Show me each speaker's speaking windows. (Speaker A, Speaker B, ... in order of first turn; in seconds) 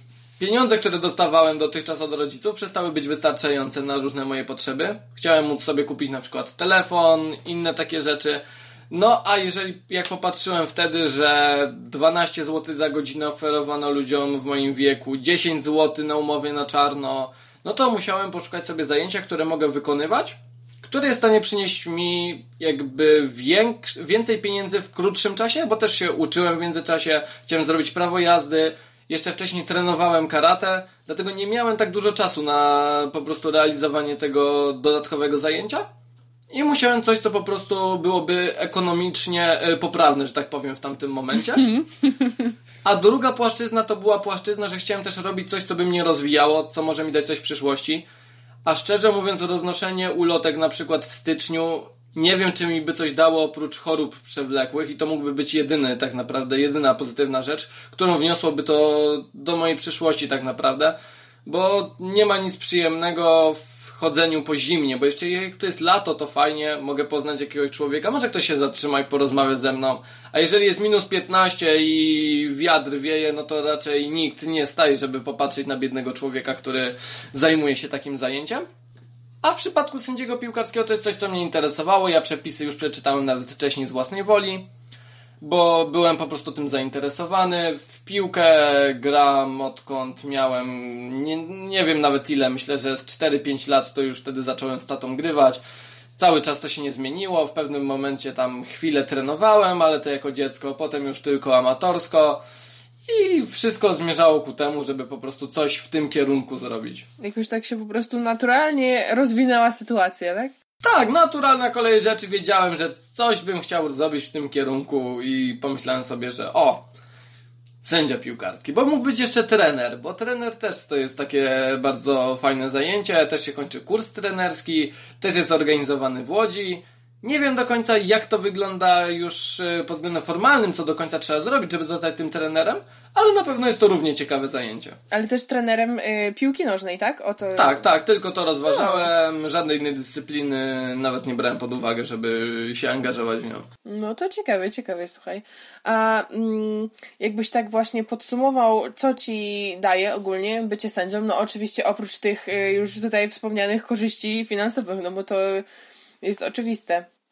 Speaker A: 0.4-35.9, 36.5-41.7, 42.8-48.0, 48.6-78.7, 79.4-84.7, 85.4-95.6, 96.2-102.4, 103.1-107.1, 110.8-116.9, 117.8-135.0, 137.6-143.7
Speaker B: 41.7-42.4, 107.2-110.5, 135.1-137.9, 138.7-139.1, 143.9-155.6, 156.2-157.1